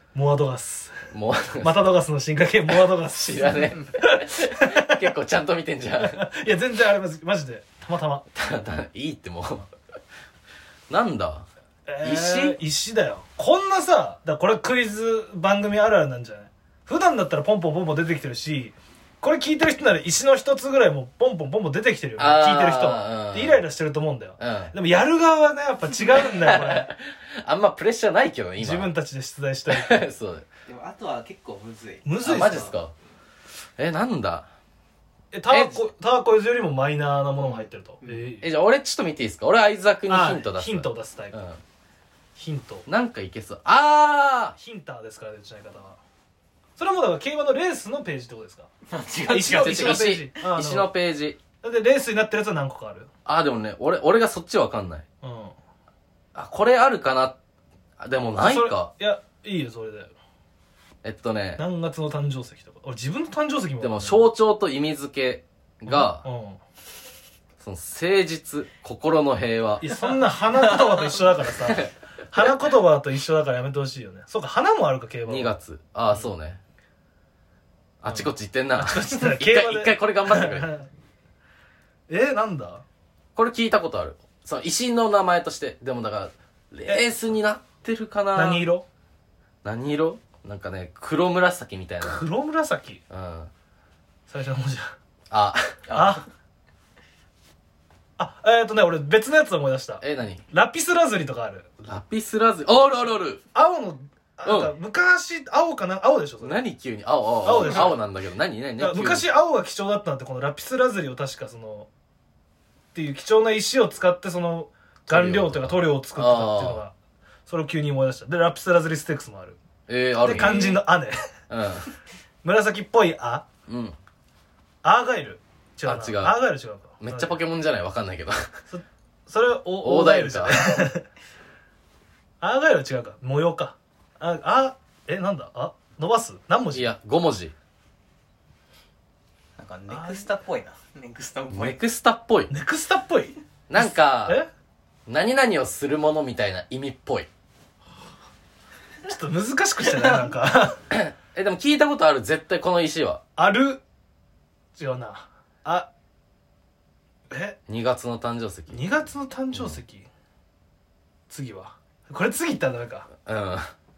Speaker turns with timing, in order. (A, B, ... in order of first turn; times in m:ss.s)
0:00.1-0:01.1 A
0:01.1-0:01.8 B
0:01.6-0:05.1 A
0:03.0-0:06.2 B
0:06.0-0:08.3 A
0:08.3-0:09.7 B
0:10.9-0:11.5 B
0:11.9-0:26.9 A
0:12.0-0:12.6 B
0:22.2-0:23.6 B
0:24.4-0:24.7 B
0:26.2-0:28.9 B
0:28.6-0:30.1 A
0:29.7-0:30.5 B
0:30.7-0:32.6 C
0:32.0-0:32.8 A
0:32.2-0:32.9 B
0:33.8-0:34.5 B
0:35.3-0:38.5 A
0:35.5-0:35.9 B
0:38.4-0:41.6 B
0:40.1-0:41.4 A
0:42.4-0:42.9 A
0:42.9-0:44.6 B
0:44.6-0:46.0 A
0:46.8-0:48.7 A
0:48.9-0:50.2 C
0:49.3-0:50.9 A
0:49.5-0:51.4 B
0:51.6-0:53.1 A
0:53.3-0:55.0 B
0:55.2-0:55.6 A
0:56.4-0:57.4 B
0:58.0-0:58.9 B
0:58.4-1:00.1 A
1:01.0-1:01.6 B
1:01.6-1:04.3 A
1:03.8-1:06.2 B
1:05.9-1:06.6 A
1:07.6-1:09.9 B
1:09.8-1:15.6 A
1:15.3-1:16.6 B
1:18.0-1:20.7 B
1:18.1-1:20.9 A
1:22.1-1:22.8 A
1:23.4-1:28.6 B
1:28.4-1:28.9 A
1:29.6-1:32.2 B
1:32.0-1:33.0 A
1:33.1-1:33.5 B
1:34.3-1:35.0 A
1:35.3-1:36.2 B
1:35.9-1:36.2 A
1:38.2-1:41.7 A
1:40.0-1:40.4 B
1:41.8-1:43.4 B
1:43.5-1:46.6 A
1:44.4-1:44.7 B
1:46.4-1:49.3 B
1:47.4-1:48.0 A
1:48.8-1:51.9 A
1:52.9-1:56.9 A
1:55.1-1:56.8 B
1:57.5-1:59.6 A
1:59.9-2:00.8 B
2:00.2-2:01.2 A
2:01.5-2:01.9 B
2:02.4-2:03.5 A
2:03.7-2:04.0 B
2:04.8-2:07.4 A
2:05.9-2:06.4 B
2:07.0-2:08.5 B
2:08.7-2:11.0 A
2:09.8-2:10.9 B
2:12.4-2:16.9 A
2:16.7-2:17.5 B
2:19.6-2:21.8 C
2:19.9-2:20.3 A
2:21.5-2:22.5 B
2:22.5-2:24.5 A
2:23.7-2:24.4 B
2:25.1-2:27.3 B
2:29.0-2:30.8 A
2:30.9-2:33.2 B
2:33.4-2:33.8 A
2:34.8-2:35.9 A
2:37.3-2:37.6 A
2:37.7-2:38.8 B
2:38.7-2:40.1 A
2:41.3-2:43.1 A
2:43.2-2:43.7 B